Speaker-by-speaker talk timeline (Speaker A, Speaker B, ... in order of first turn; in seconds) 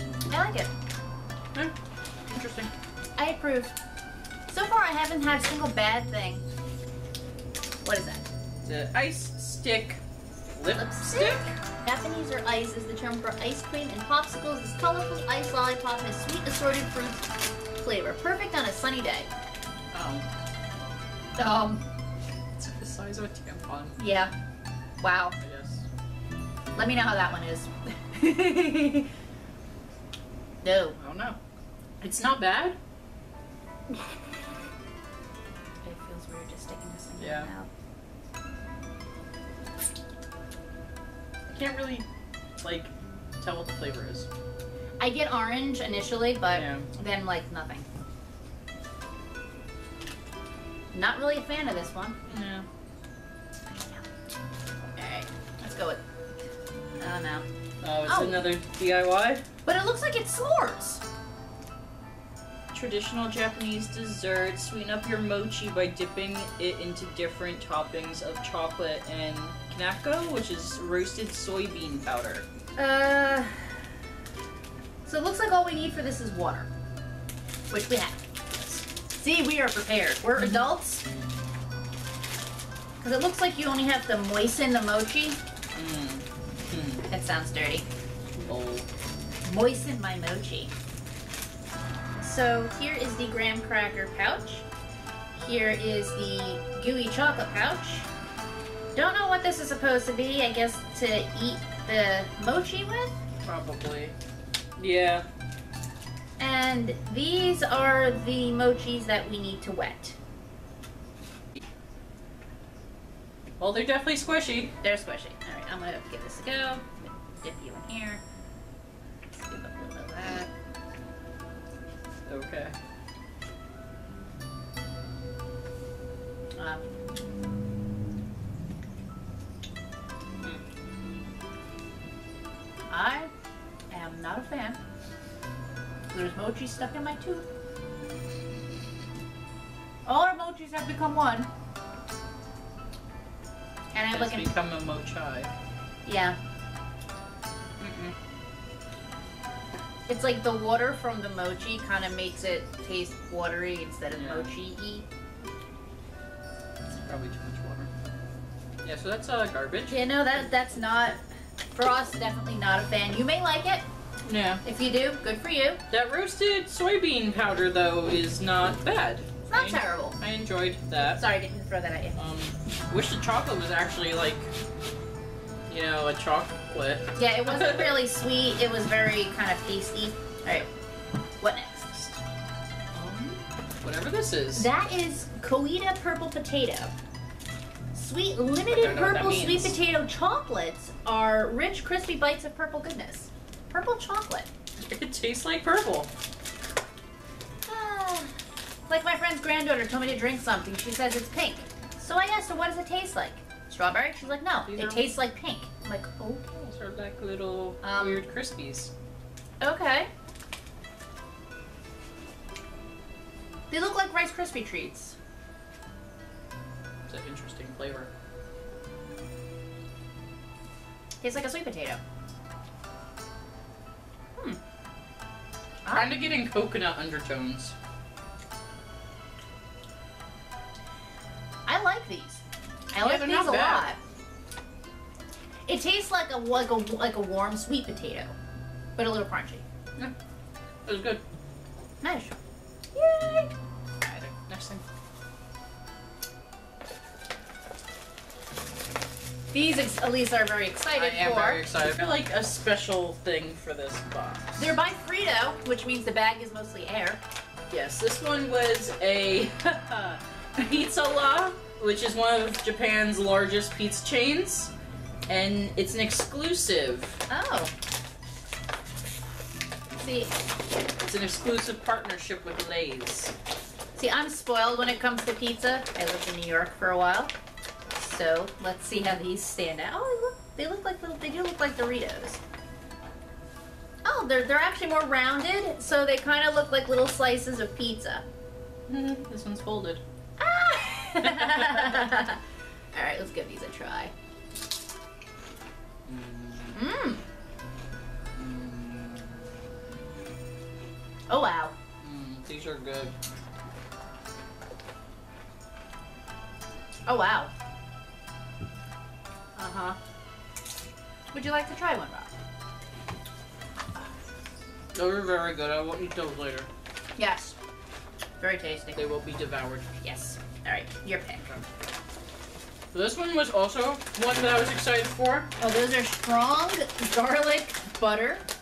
Speaker A: 0.3-0.7, 3.2-3.7, 4.5-6.4, 7.8-8.3, 10.7-19.3, 21.4-21.8, 24.0-24.3, 25.0-25.4, 26.8-29.1, 30.6-31.0, 35.8-37.7, 45.0-47.9, 50.9-52.2, 53.7-54.4, 54.9-56.0, 57.0-57.5, 58.0-58.4, 59.7-61.0, 72.8-73.8, 75.0-76.7, 77.7-78.2, 79.1-81.0, 83.0-85.4, 87.1-87.9, 89.4-90.7, 92.2-94.7, 95.3-98.1, 98.9-103.2, 106.4-110.2, 114.8-118.2, 119.3-120.5, 126.6-126.8, 132.9-133.3, 133.9-134.8, 136.1-137.5, 140.1-141.5, 143.9-144.5, 146.1-146.4, 150.1-155.1, 159.9-161.2, 161.7-163.8, 164.6-165.8, 169.5-170.2, 171.0-172.2, 177.2-180.7, 181.4-181.9, 183.1-183.3, 184.5-186.9, 187.9-194.5, 197.7-198.3, 198.9-206.7, 207.8-208.2, 209.6-210.1, 213.7-215.2, 221.2-222.0, 225.8-226.1, 231.7-234.0, 235.7-238.3, 239.0-239.6, 242.0-242.4, 242.9-243.5, 249.5-251.6, 254.6-257.2, 267.3-267.7, 270.0-270.3, 274.0-277.3, 277.9-282.4, 284.0-288.2, 290.4-292.4, 292.9-294.1, 296.7-297.2, 301.3-301.7, 307.1-307.5, 309.6-310.0, 311.3-312.3, 317.2-317.6, 318.4-319.0, 320.0-321.5, 325.6-328.4
Speaker B: 2.3-2.7, 8.6-10.0, 10.6-11.5, 19.9-20.2, 22.6-24.0, 25.4-25.9, 31.0-31.4, 32.0-32.8, 37.2-37.5, 41.5-42.1, 42.6-44.3, 46.5-46.9, 52.3-52.7, 57.8-59.4, 62.7-72.4, 78.5-78.8, 80.4-80.6, 85.7-87.1, 88.3-88.9, 103.4-104.2, 104.8-105.2, 113.6-114.7, 122.2-122.7, 144.1-145.5, 147.8-148.1, 154.1-154.6, 157.0-157.9, 158.8-160.1, 164.2-164.6, 165.9-171.2, 172.2-174.5, 175.7-178.0, 183.8-184.7, 188.7-189.8, 194.8-196.1, 204.6-205.1, 206.7-208.9, 217.1-218.1, 225.9-227.8, 233.0-233.9, 240.9-241.2, 244.1-244.8, 250.9-254.6, 257.7-264.7, 265.3-267.2, 271.0-273.3, 288.9-290.0, 291.2-292.1, 296.0-296.8, 298.4-299.5, 302.0-303.1, 314.9-316.7, 318.9-319.9, 322.9-325.5